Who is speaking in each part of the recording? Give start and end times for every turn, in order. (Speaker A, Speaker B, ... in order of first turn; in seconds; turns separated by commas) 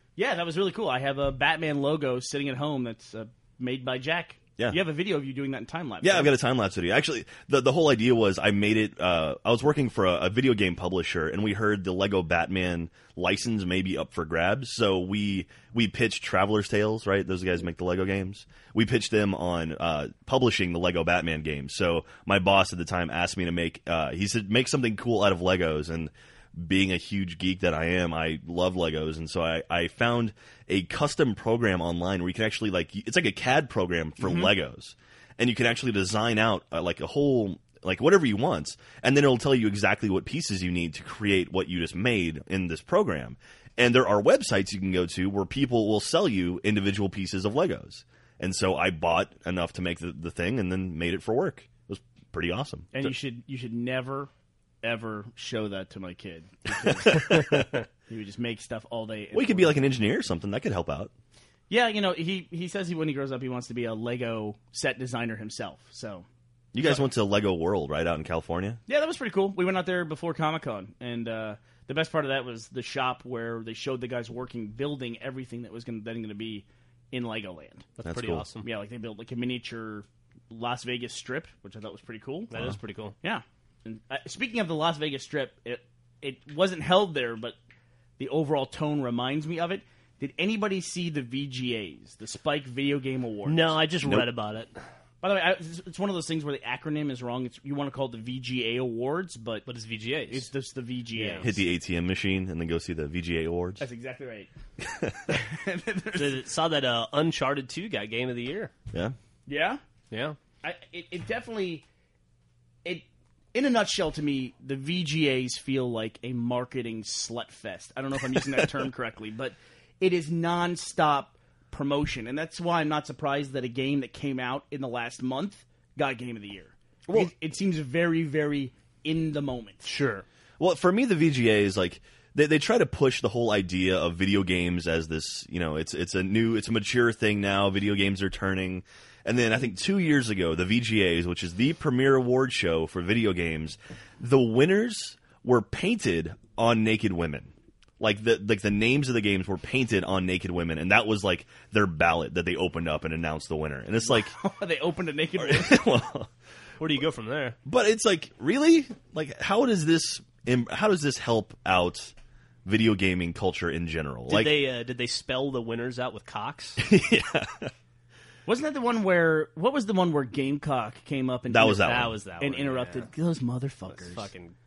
Speaker A: 0.2-6.3, Speaker B: 6.0-53.1, Speaker A: 34.2-34.5, Speaker A: 52.9-54.3, Speaker A: 54.8-59.8, Speaker B: 56.8-57.6, Speaker C: 57.5-57.8, Speaker B: 59.3-61.1, Speaker A: 61.7-66.2, Speaker B: 66.7-68.8, Speaker A: 66.8-67.0, Speaker A: 68.9-77.9, Speaker C: 78.0-78.7, Speaker B: 78.0-78.4, Speaker A: 78.6-82.5, Speaker C: 82.5-83.1, Speaker A: 83.2-87.6, Speaker A: 88.2-93.8, Speaker C: 93.5-94.8, Speaker A: 95.2-99.7, Speaker C: 99.7-100.5, Speaker A: 100.3-101.6, Speaker C: 101.1-101.5, Speaker B: 101.4-103.8, Speaker A: 103.8-104.5, Speaker B: 104.8-105.3, Speaker A: 105.3-106.4, Speaker C: 106.1-108.7, Speaker A: 109.5-109.8, Speaker C: 110.1-110.4, Speaker A: 110.6-111.8, Speaker A: 112.8-129.9, Speaker C: 129.8-130.2, Speaker B: 130.6-154.3, Speaker A: 154.1-155.8, Speaker B: 155.4-156.3, Speaker C: 156.8-157.6, Speaker B: 157.7-162.1, Speaker B: 162.6-164.6, Speaker C: 164.3-166.8, Speaker B: 166.8-167.7, Speaker A: 168.5-174.3, Speaker B: 171.5-172.2, Speaker C: 171.8-173.1, Speaker C: 173.9-174.5